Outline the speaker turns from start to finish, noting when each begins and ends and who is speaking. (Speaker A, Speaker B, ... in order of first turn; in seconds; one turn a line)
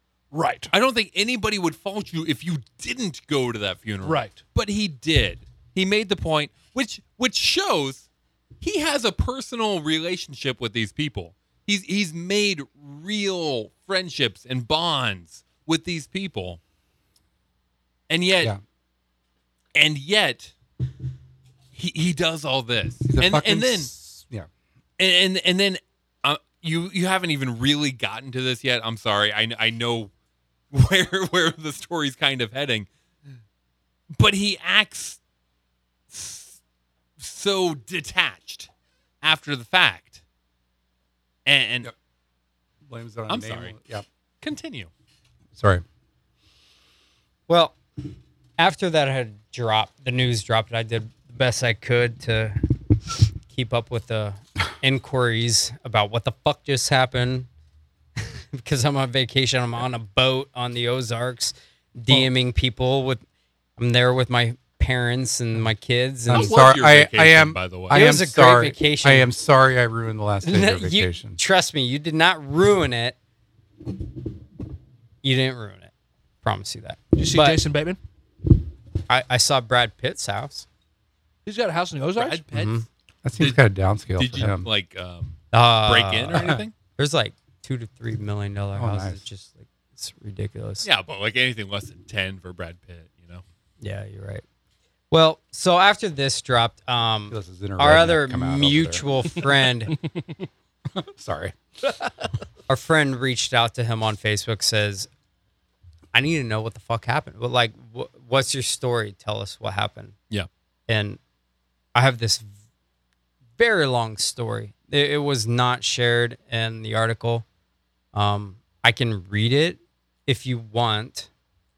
Speaker A: 0.3-0.7
Speaker B: 0.7-8.1
Speaker A: 4.0-4.4
Speaker B: 8.6-16.6
Speaker B: 18.1-18.5
Speaker B: 19.8-20.5
Speaker B: 21.7-23.9
Speaker C: 23.1-24.5
Speaker B: 25.0-30.1
Speaker B: 30.7-32.9
Speaker B: 34.2-35.2
Speaker B: 36.1-36.6
Speaker B: 37.2-38.7
Speaker B: 39.2-40.2
Speaker B: 41.5-41.9
Speaker C: 42.9-44.0
Speaker B: 43.3-43.7
Speaker B: 44.4-44.9
Speaker C: 45.6-45.8
Speaker D: 47.5-47.8
Speaker D: 48.6-57.5
Speaker D: 58.2-63.2
Speaker D: 63.8-66.5
Speaker C: 66.3-71.4
Speaker B: 66.3-68.0
Speaker D: 67.9-69.3
Speaker D: 70.4-73.2
Speaker D: 75.2-75.9
Speaker D: 76.4-77.6
Speaker A: 77.2-78.0
Speaker D: 79.1-80.7
Speaker A: 81.5-82.4
Speaker B: 82.2-82.8
Speaker D: 82.5-82.9
Speaker C: 83.2-84.7
Speaker B: 84.2-86.7
Speaker D: 85.5-90.9
Speaker C: 88.8-89.2
Speaker B: 90.8-93.4
Speaker D: 93.8-94.4
Speaker D: 95.1-100.0
Speaker C: 97.3-99.0
Speaker C: 101.0-101.5
Speaker D: 102.7-105.1
Speaker D: 106.1-110.1
Speaker D: 110.9-111.2
Speaker D: 112.0-112.5
Speaker D: 113.6-117.5
Speaker D: 118.1-121.3